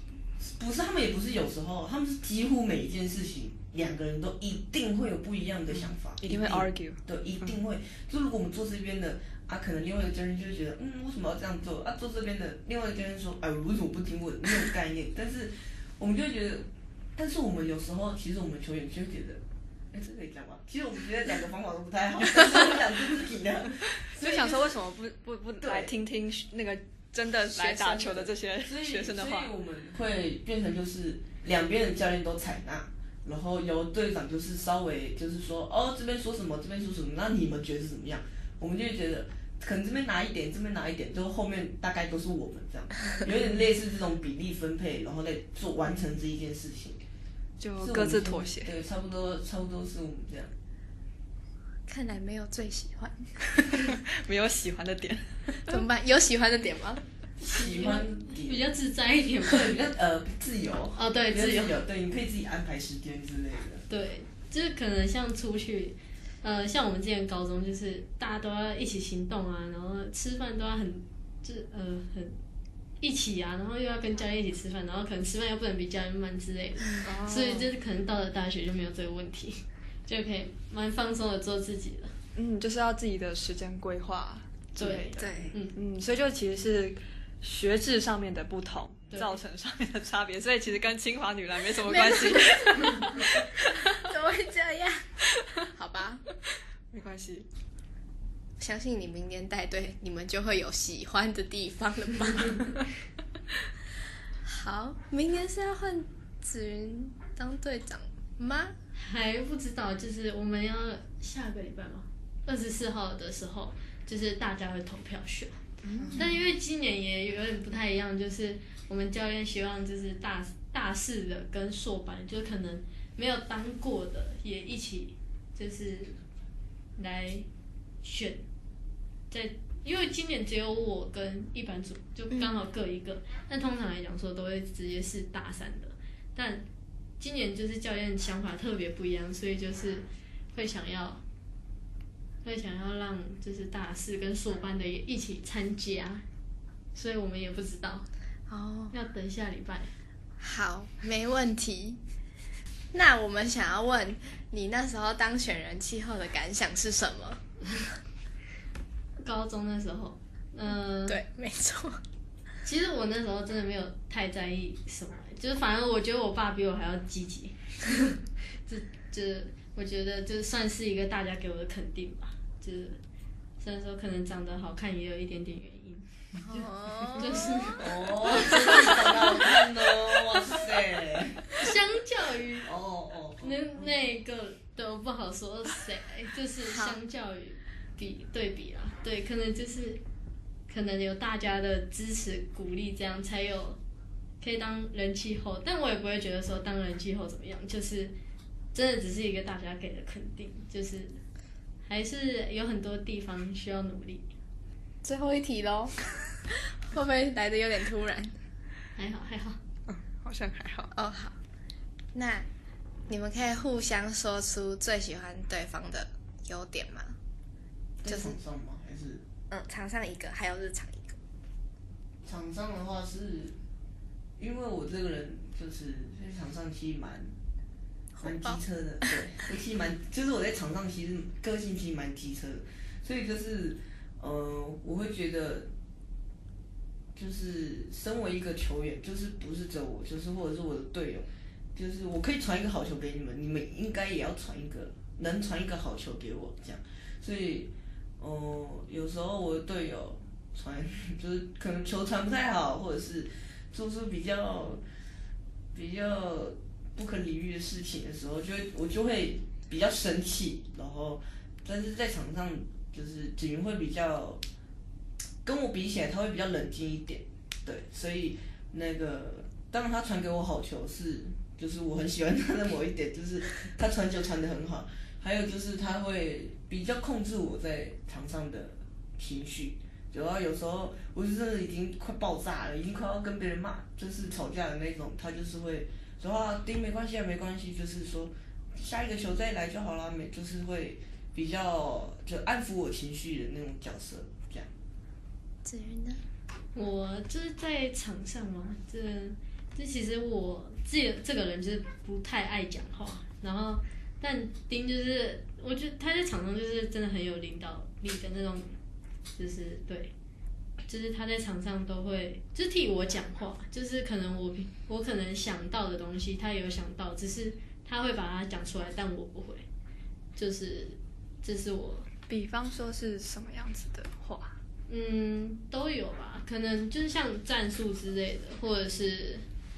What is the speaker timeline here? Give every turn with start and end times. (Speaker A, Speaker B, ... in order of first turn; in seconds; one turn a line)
Speaker A: 0.4-24.7
Speaker B: 5.7-7.5
Speaker B: 24.1-29.5
Speaker A: 25.6-25.9
Speaker C: 27.6-28.3
Speaker A: 28.6-47.0
Speaker B: 47.6-48.7
Speaker A: 47.8-50.5
Speaker C: 51.9-53.8
Speaker B: 53.9-55.8
Speaker C: 55.6-57.0
Speaker A: 57.4-58.7
Speaker D: 57.4-59.7
Speaker A: 59.4-63.9
Speaker D: 61.0-61.8
Speaker D: 63.9-72.4
Speaker D: 73.0-82.1
Speaker B: 77.0-77.7
Speaker B: 82.3-93.8
Speaker D: 84.8-85.8
Speaker C: 85.2-85.5
Speaker D: 89.1-89.4
Speaker C: 91.8-96.2
Speaker B: 96.9-97.5
Speaker C: 98.6-102.8
Speaker C: 104.4-108.8
Speaker D: 108.9-115.5
Speaker B: 115.8-116.3
Speaker C: 116.0-116.3
Speaker D: 116.2-126.2
Speaker D: 127.0-127.5
Speaker D: 128.0-128.4
Speaker D: 129.3-136.6
Speaker C: 132.3-132.6
Speaker D: 137.2-141.2
Speaker D: 142.4-146.2
Speaker D: 146.9-148.1
Speaker C: 148.5-148.9
Speaker D: 148.9-149.9
Speaker C: 150.4-152.0
Speaker C: 152.9-157.4
Speaker D: 159.2-161.2
Speaker C: 161.1-162.0
Speaker D: 162.6-173.0
Speaker D: 173.6-179.2
Speaker C: 176.4-177.9
Speaker A: 177.8-181.7
Speaker D: 181.6-182.7
Speaker A: 182.6-183.9
Speaker D: 183.4-190.0
Speaker C: 186.7-186.9
Speaker D: 190.7-193.8
Speaker D: 194.4-198.1
Speaker D: 198.7-201.2
Speaker D: 201.9-204.3
Speaker C: 205.0-208.4
Speaker D: 208.9-209.6
Speaker B: 209.9-210.9
Speaker C: 210.9-211.4
Speaker C: 212.1-212.5
Speaker C: 213.1-217.2
Speaker A: 218.0-219.2
Speaker C: 218.1-218.3
Speaker C: 219.5-221.2
Speaker A: 222.2-223.6
Speaker A: 224.4-227.3
Speaker C: 228.2-229.2
Speaker A: 228.2-235.7
Speaker A: 237.1-254.8
Speaker A: 255.7-264.4
Speaker A: 265.4-294.7
Speaker C: 295.6-296.2
Speaker D: 296.7-308.8
Speaker D: 309.4-310.1
Speaker D: 310.9-319.6
Speaker D: 320.4-322.1
Speaker B: 322.3-324.6
Speaker D: 324.9-329.4